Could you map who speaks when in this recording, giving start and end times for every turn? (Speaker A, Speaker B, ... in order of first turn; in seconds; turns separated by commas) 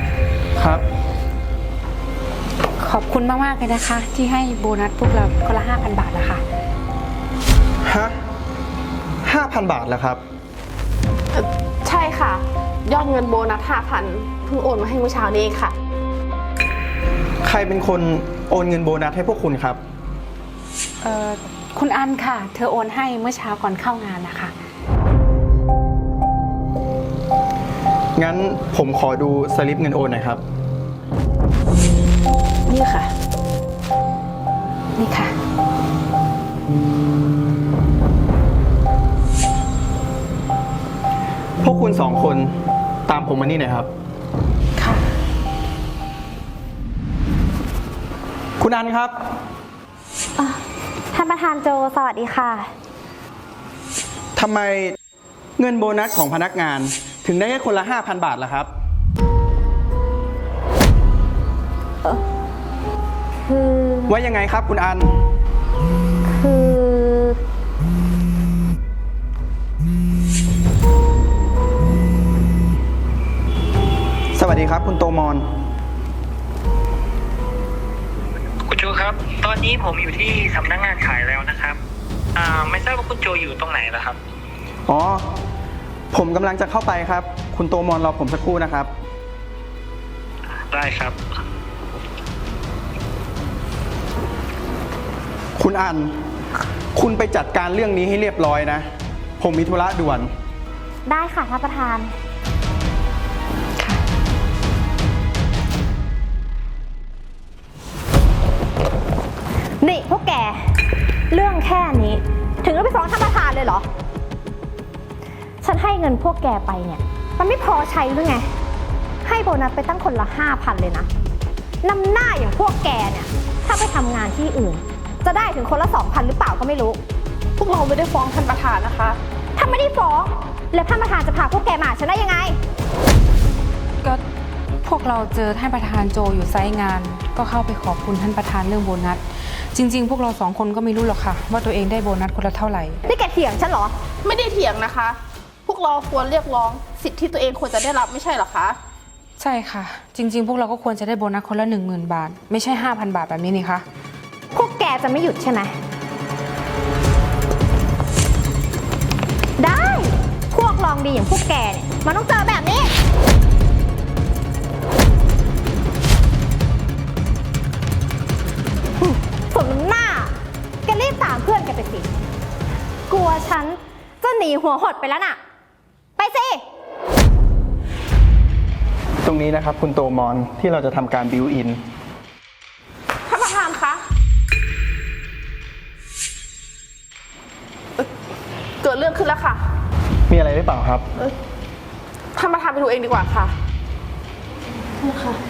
Speaker A: 0.6-0.8, Speaker B: 2.8-6.4, Speaker A: 7.8-8.2, Speaker A: 9.2-10.2, Speaker C: 11.3-15.7, Speaker A: 17.4-19.8, Speaker B: 21.0-24.5, Speaker A: 28.1-30.4, Speaker B: 32.7-33.1, Speaker B: 35.0-35.3, Speaker A: 41.6-43.9, Speaker A: 48.6-49.2, Speaker D: 50.4-52.7, Speaker A: 54.4-55.0, Speaker A: 55.6-58.7, Speaker D: 63.5-64.2, Speaker A: 64.1-65.2, Speaker D: 66.3-67.4, Speaker A: 74.3-75.5, Speaker E: 78.7-81.8, Speaker E: 82.3-84.2, Speaker A: 84.9-85.2, Speaker A: 86.1-88.9, Speaker E: 90.7-91.2, Speaker A: 95.6-96.2, Speaker A: 97.0-98.9, Speaker A: 99.4-100.3, Speaker D: 101.1-102.1, Speaker D: 109.8-113.9, Speaker D: 115.6-118.5, Speaker D: 119.2-121.1, Speaker D: 121.8-127.0, Speaker C: 127.6-129.2, Speaker D: 129.6-132.6, Speaker B: 134.8-143.0, Speaker D: 143.1-144.0, Speaker C: 144.2-148.8, Speaker B: 149.4-153.8, Speaker D: 154.5-155.8, Speaker D: 159.6-162.9, Speaker D: 169.0-170.3, Speaker D: 170.8-172.1, Speaker D: 173.1-175.4, Speaker D: 176.2-176.6, Speaker A: 179.2-181.8, Speaker C: 183.3-184.0, Speaker C: 188.8-189.6, Speaker A: 190.3-191.1, Speaker C: 192.3-193.5, Speaker C: 195.0-195.4